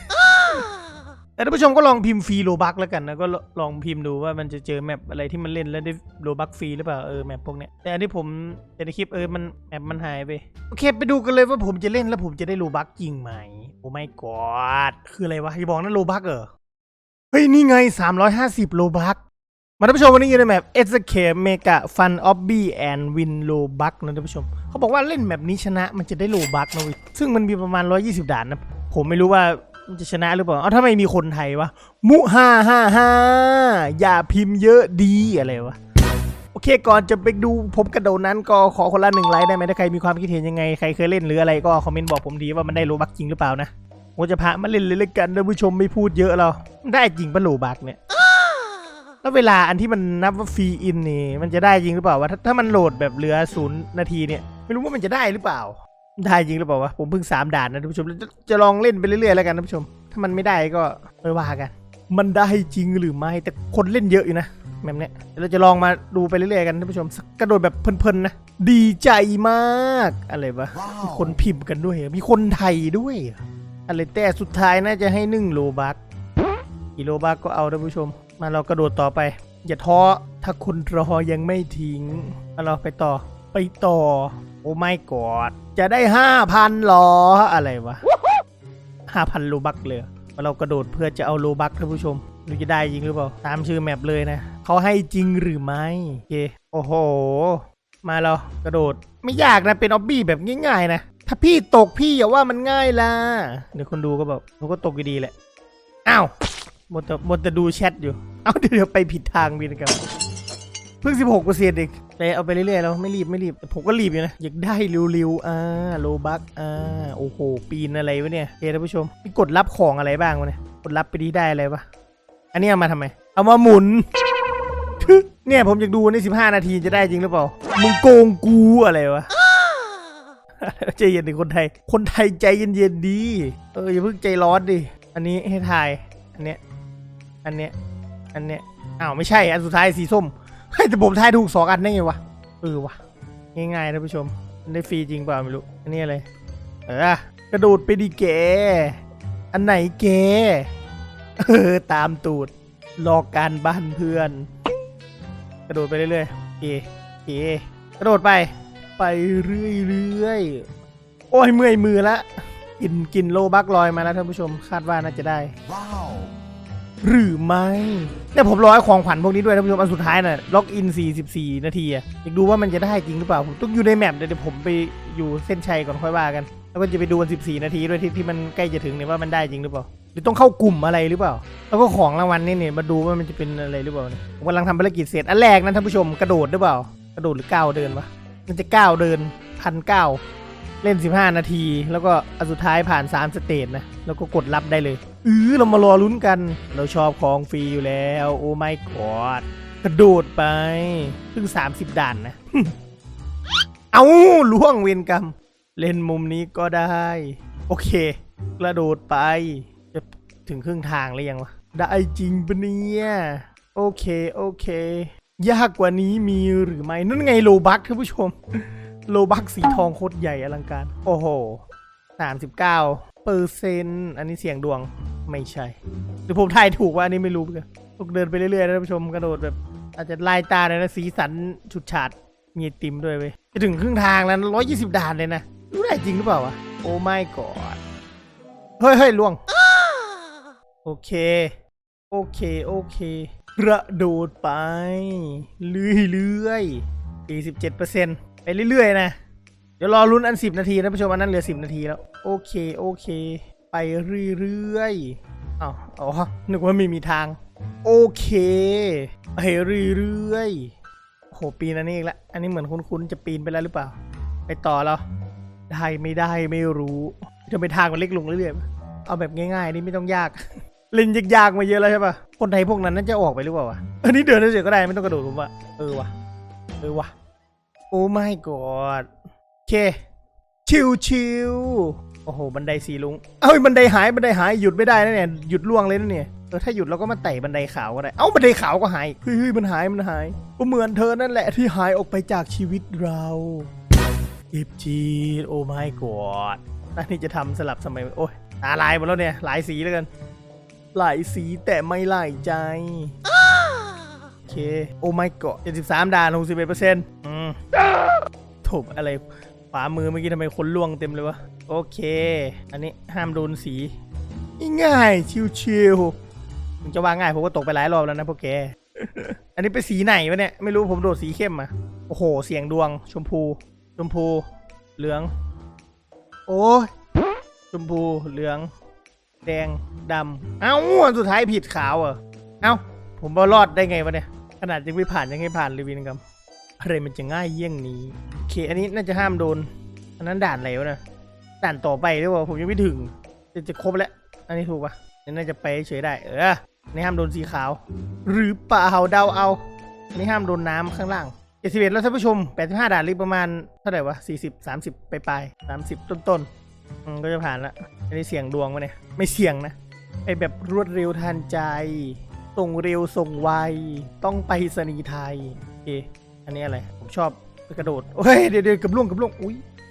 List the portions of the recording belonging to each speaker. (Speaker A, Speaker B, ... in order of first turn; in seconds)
Speaker A: 1.4-16.5, 17.3-19.2, 19.8-35.8, 36.5-48.0, 49.2-76.0, 77.0-88.0, 89.1-105.3, 106.0-106.3, 106.9-110.0, 111.0-121.8, 122.5-124.0, 125.0-129.3, 130.6-136.6, 137.4-137.7, 138.3-143.0, 143.5-146.2, 146.9-149.0, 149.5-150.7, 151.4-154.5, 155.7-160.6, 161.3-162.2, 162.8-166.1, 167.0-190.2, 190.8-202.7, 203.9-218.3, 219.1-221.6, 222.2-225.8, 226.3-237.8, 238.8-239.4, 240.8-241.5, 242.1-249.1, 249.8-260.7, 261.3-263.9, 264.5-265.0, 265.7-276.1, 276.8-277.1, 277.9-279.1, 279.6-280.0, 280.6-293.7, 294.5-300.1, 300.9-303.1, 304.5-307.6, 308.6-313.9, 314.6-316.1, 316.8-324.4, 325.0-325.3, 326.5-326.9, 327.7-328.7, 329.4-336.2, 336.8-339.7, 340.2-341.0, 341.6-349.6, 350.1-356.5, 357.1-369.6